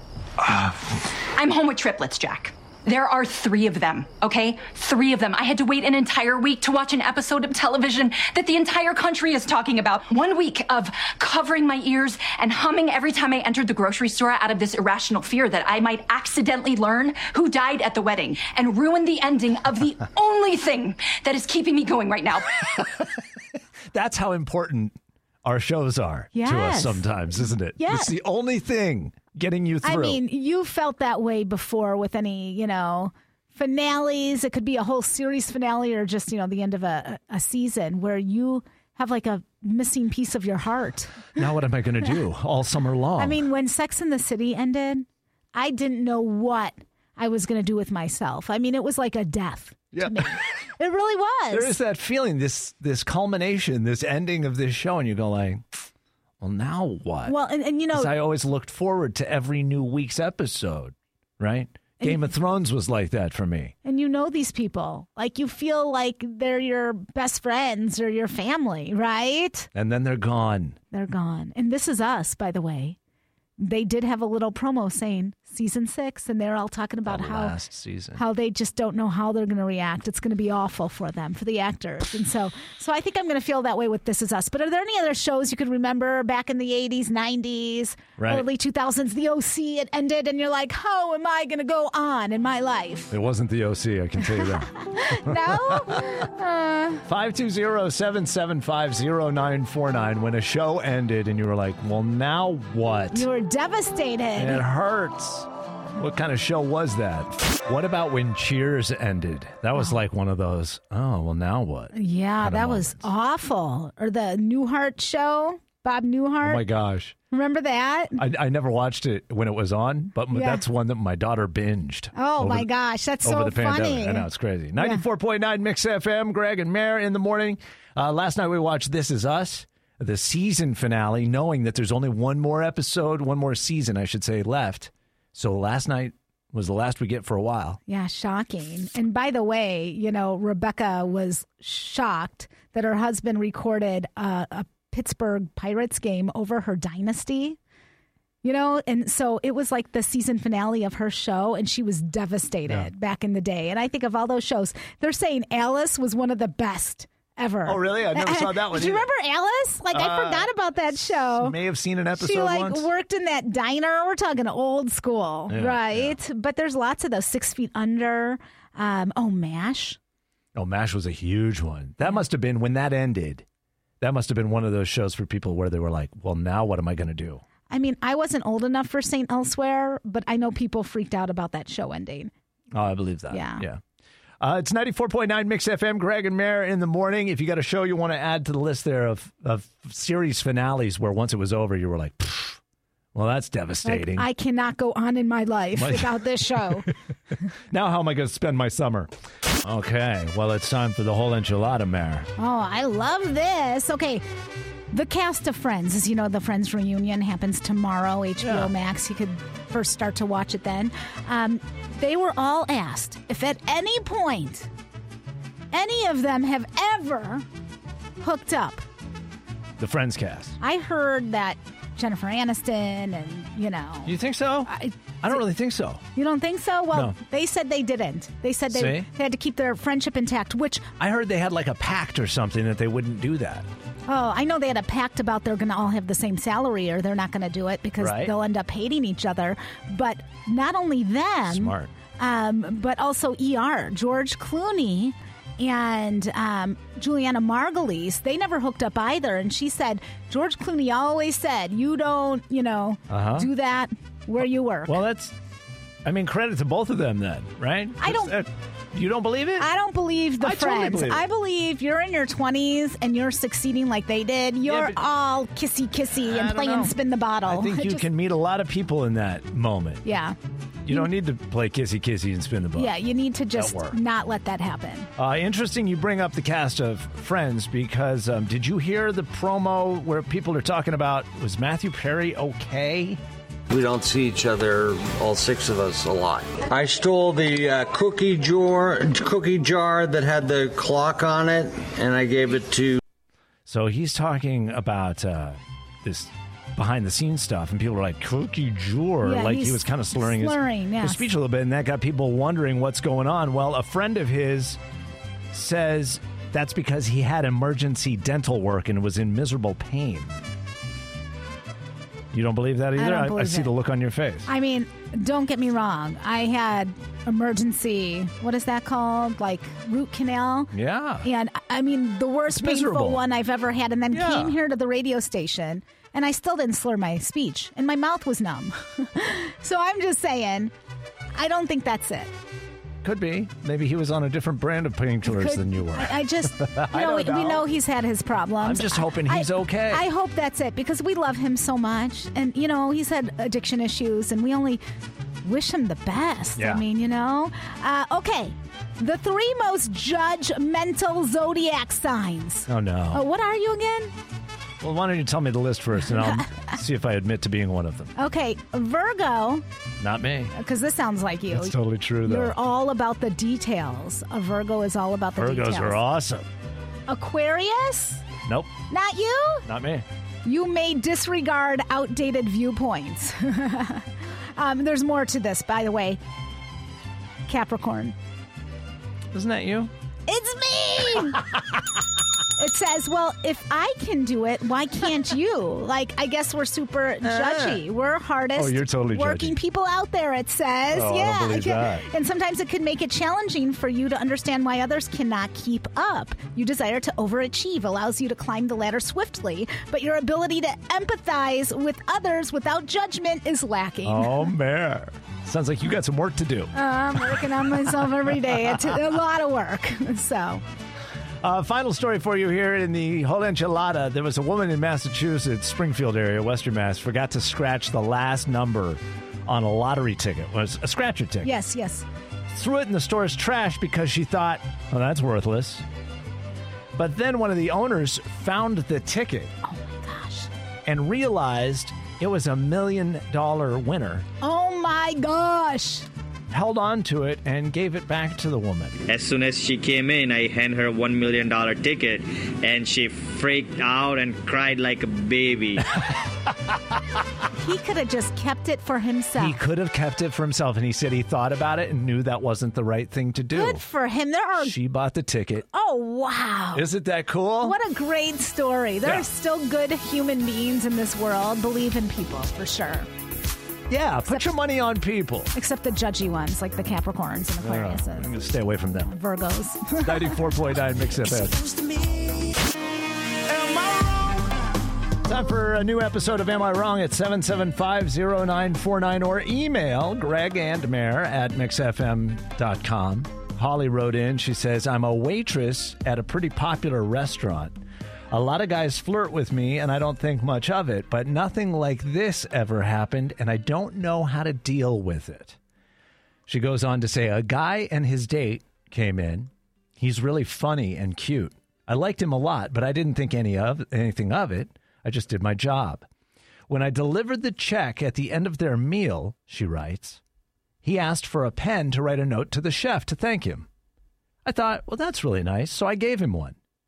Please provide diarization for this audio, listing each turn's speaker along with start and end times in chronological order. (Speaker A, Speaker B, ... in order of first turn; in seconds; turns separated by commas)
Speaker A: 1.3-22.6, Speaker B: 23.9-30.2, Speaker C: 26.3-27.1, Speaker C: 27.8-28.1, Speaker C: 29.8-41.4, Speaker B: 41.4-43.4, Speaker C: 43.2-51.7, Speaker B: 49.9-50.4, Speaker B: 51.5-55.6, Speaker B: 56.4-57.4, Speaker C: 57.2-58.1, Speaker B: 57.9-63.7, Speaker C: 62.0-62.3, Speaker C: 63.8-69.7, Speaker B: 69.7-70.8, Speaker C: 70.9-73.0, Speaker C: 73.6-77.5, Speaker B: 77.0-78.2, Speaker C: 78.1-93.1, Speaker B: 88.2-88.5, Speaker B: 93.1-96.2, Speaker C: 94.3-97.0, Speaker B: 97.1-103.3, Speaker C: 103.1-104.6, Speaker B: 104.3-113.1, Speaker C: 111.9-116.7, Speaker B: 116.4-117.1, Speaker C: 117.3-118.2, Speaker B: 118.2-122.7, Speaker C: 120.3-120.6, Speaker C: 122.1-125.0, Speaker B: 123.2-137.8, Speaker C: 137.9-147.6, Speaker C: 148.4-161.6, Speaker B: 157.6-159.1, Speaker B: 159.9-162.9, Speaker C: 162.2-170.0, Speaker B: 165.5-166.2, Speaker B: 170.5-173.4, Speaker B: 174.0-177.4, Speaker C: 177.7-182.3, Speaker B: 182.7-183.8, Speaker C: 183.3-183.6, Speaker B: 184.4-192.6, Speaker B: 193.1-194.3, Speaker C: 193.8-196.9, Speaker B: 195.8-196.9, Speaker B: 197.7-199.1, Speaker B: 199.6-202.3, Speaker C: 202.4-204.2, Speaker C: 204.9-214.7, Speaker B: 208.4-208.7, Speaker C: 215.7-217.4, Speaker C: 218.2-218.8, Speaker B: 219.8-220.6, Speaker C: 220.6-224.1, Speaker B: 224.0-226.0, Speaker C: 224.7-225.4, Speaker C: 226.1-230.9, Speaker B: 228.7-229.1, Speaker B: 231.0-233.7, Speaker C: 234.1-255.0, Speaker B: 238.0-238.3, Speaker B: 241.5-241.9, Speaker B: 253.1-253.5, Speaker B: 254.8-255.3, Speaker B: 256.0-259.7, Speaker C: 258.0-258.4, Speaker C: 259.6-268.1, Speaker B: 260.4-261.2, Speaker B: 264.6-265.0, Speaker B: 266.3-270.0, Speaker C: 270.0-270.4, Speaker B: 270.8-272.9, Speaker C: 272.8-275.1, Speaker B: 273.5-274.0, Speaker B: 275.2-283.2, Speaker D: 283.7-293.0, Speaker B: 293.6-304.8, Speaker C: 299.2-301.3, Speaker B: 305.5-310.3, Speaker B: 312.3-314.5, Speaker C: 313.0-313.7, Speaker C: 314.4-320.7, Speaker B: 320.7-321.3, Speaker C: 321.2-330.7, Speaker B: 322.5-323.2, Speaker B: 324.1-324.6, Speaker C: 331.3-332.3, Speaker B: 333.0-337.6, Speaker C: 335.2-344.8, Speaker B: 338.6-340.0, Speaker C: 345.4-354.1, Speaker B: 346.6-346.8, Speaker B: 352.7-353.2, Speaker B: 354.8-358.1, Speaker C: 356.1-356.8, Speaker C: 358.1-359.6, Speaker B: 360.0-360.5, Speaker C: 360.5-366.0, Speaker B: 361.5-362.5, Speaker B: 365.4-366.5, Speaker C: 367.1-368.2, Speaker B: 368.4-368.7, Speaker C: 368.9-369.6, Speaker B: 369.6-370.1, Speaker C: 370.4-376.2, Speaker C: 377.5-378.1, Speaker B: 379.3-379.9, Speaker C: 380.3-381.4, Speaker C: 382.6-404.5, Speaker B: 387.2-387.8, Speaker B: 388.6-389.6, Speaker B: 390.9-392.1, Speaker B: 404.0-406.7, Speaker C: 406.7-410.6, Speaker B: 411.4-421.5, Speaker C: 421.4-422.1, Speaker B: 422.5-425.8, Speaker B: 426.9-429.5, Speaker C: 429.6-430.5, Speaker B: 430.9-434.2, Speaker C: 434.4-436.1, Speaker B: 436.5-439.0, Speaker E: 439.1-445.8, Speaker B: 446.0-446.2, Speaker C: 447.5-449.6, Speaker B: 449.4-453.8, Speaker C: 453.5-454.8, Speaker B: 454.6-455.6, Speaker C: 455.7-456.9, Speaker B: 456.7-457.8, Speaker C: 457.6-463.1, Speaker B: 463.9-465.5, Speaker C: 465.5-468.3, Speaker B: 467.6-469.1, Speaker C: 469.0-470.4, Speaker B: 470.0-471.6, Speaker B: 473.5-474.3, Speaker B: 475.2-487.8, Speaker B: 488.3-495.6, Speaker B: 496.5-506.1, Speaker B: 506.7-510.2, Speaker B: 510.8-513.7, Speaker B: 514.4-516.6